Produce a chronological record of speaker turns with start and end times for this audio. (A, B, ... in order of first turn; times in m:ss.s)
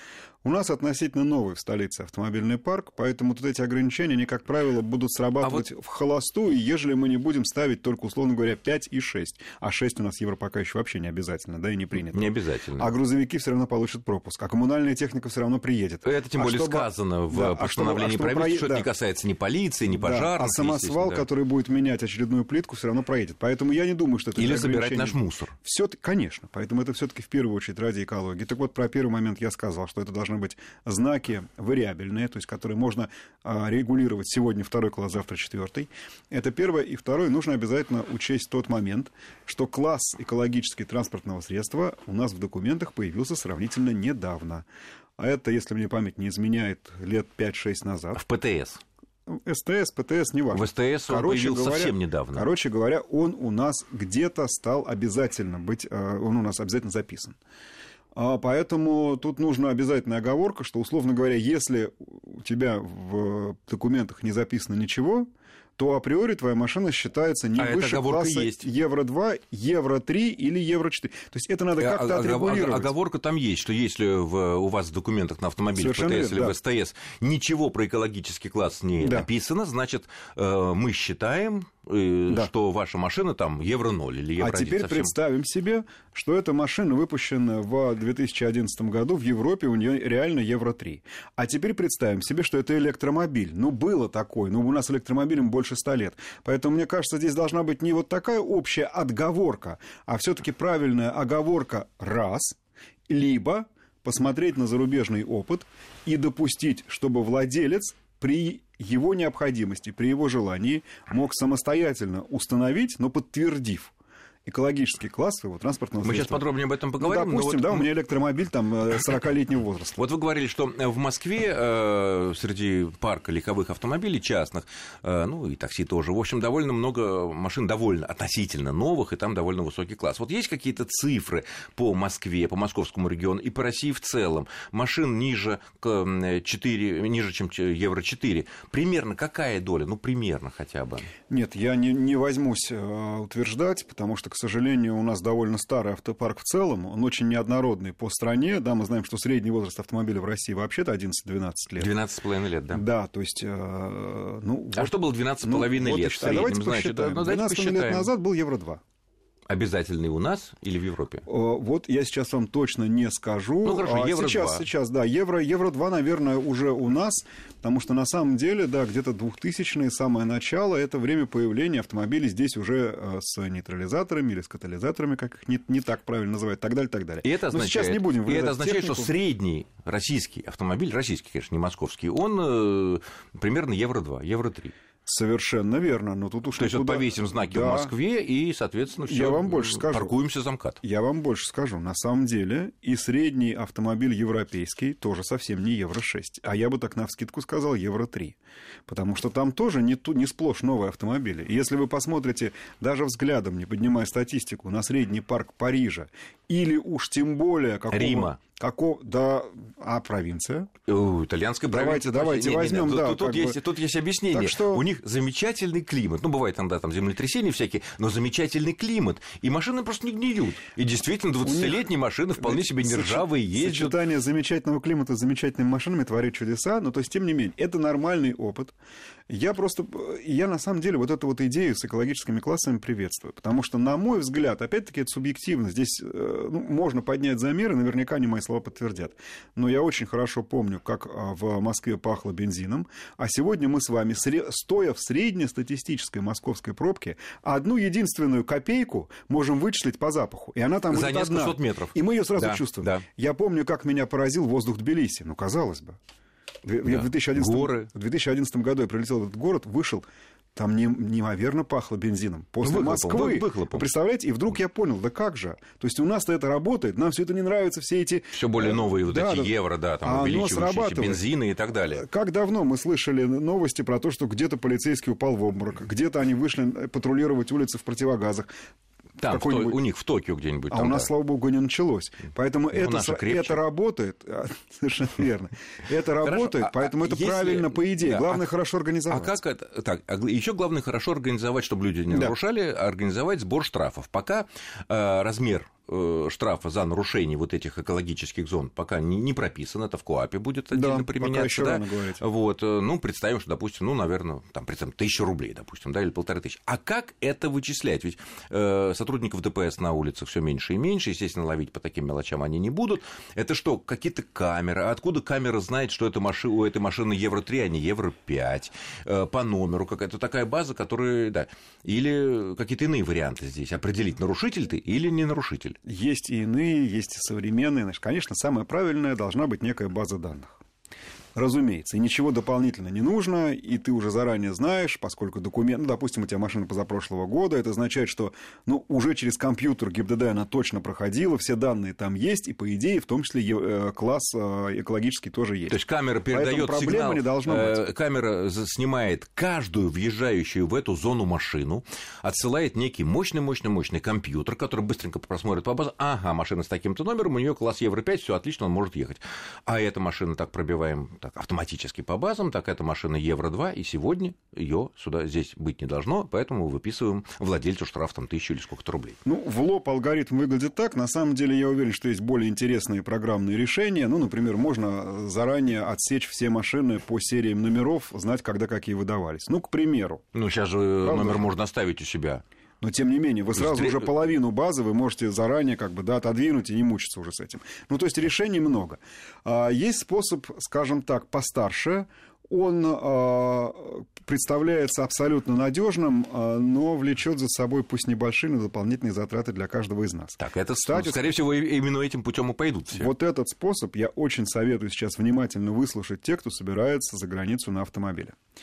0:00.4-0:18.9 A
0:12.1-0:12.9 B
0:16.0-0:21.3 B
0:19.9-0:44.7 A
0:24.4-0:25.5 B
0:45.2-0:48.2 A
0:48.2-0:48.8 B
0:49.3-0:57.4 A
0:50.5-0:52.5 B
0:58.2-1:12.9 A
1:07.6-1:08.7 B
1:11.8-1:25.1 B
1:15.8-1:16.6 A
1:19.0-1:19.3 A
1:24.4-1:42.6 A
1:43.1-1:53.9 A
1:54.5-2:00.0 A
1:56.0-1:57.9 B
2:00.0-2:21.1 B
2:21.3-2:31.9 A
2:31.8-2:32.8 B
2:32.7-2:38.8 A
2:34.8-2:38.1 B
2:39.5-2:41.2 B
2:41.3-2:59.1 A
2:43.6-2:44.7 B
2:57.2-3:04.7 B
3:05.1-3:07.9 A
3:06.6-3:10.8 B
3:09.1-3:10.2 A
3:10.8-3:18.4 A
3:18.9-3:30.7 A
3:27.9-3:28.4 B
3:30.9-3:44.0 B
3:31.7-3:33.6 A
3:34.3-3:34.8 A
3:41.4-3:41.9 A
3:42.4-3:48.7 A
3:49.3-4:16.0 A
4:10.9-4:13.1 B
4:16.6-4:31.3 A
4:16.8-4:17.9 B
4:22.6-4:23.9 B
4:28.3-4:32.0 B
4:31.9-4:38.5 A
4:39.2-4:41.1 B
4:39.3-4:39.8 A
4:40.7-4:49.4 A
4:42.7-4:43.6 B
4:46.2-4:48.5 B
4:49.1-5:25.8 B
5:00.7-5:02.2 A
5:25.9-5:30.6 A
5:31.4-5:45.8 A
5:45.7-6:09.2 B
5:46.3-5:47.8 A
6:09.2-6:20.3 A
6:20.3-6:22.4 B
6:21.0-6:21.5 A
6:22.8-6:41.3 A
6:23.6-6:24.1 B
6:40.4-6:43.1 B
6:42.9-6:48.4 A